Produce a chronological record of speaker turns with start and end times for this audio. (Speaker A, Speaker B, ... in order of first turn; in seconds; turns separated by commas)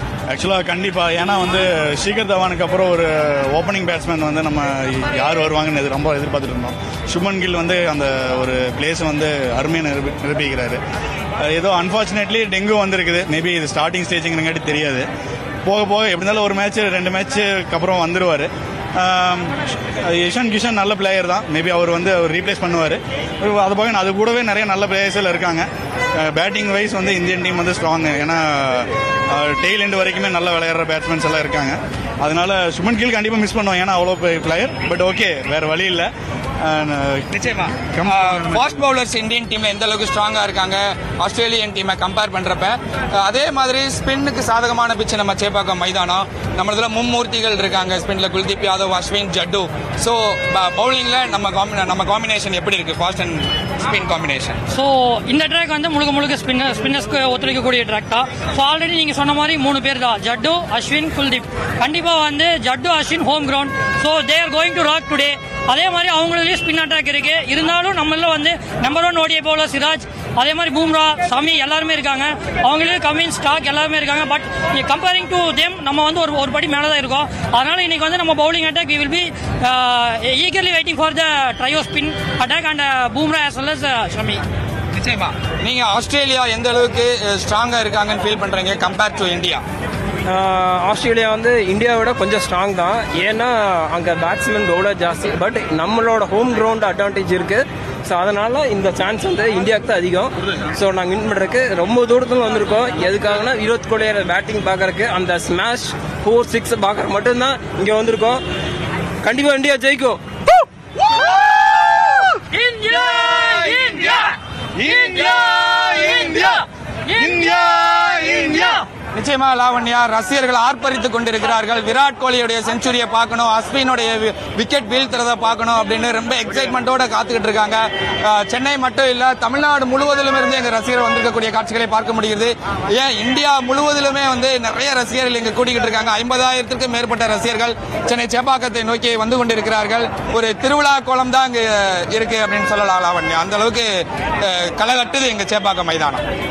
Speaker A: 0.3-10.8, Speaker A: 11.4-15.1, Speaker A: 15.7-36.1, Speaker A: 36.6-37.3, Speaker B: 37.3-54.6, Speaker A: 37.9-38.3, Speaker C: 54.7-84.4, Speaker B: 84.9-89.6, Speaker D: 90.3-108.4, Speaker D: 109.2-110.2, Speaker C: 112.3-114.2, Speaker C: 114.9-116.5, Speaker C: 117.1-118.6, Speaker B: 119.1-143.9, Speaker B: 144.4-146.2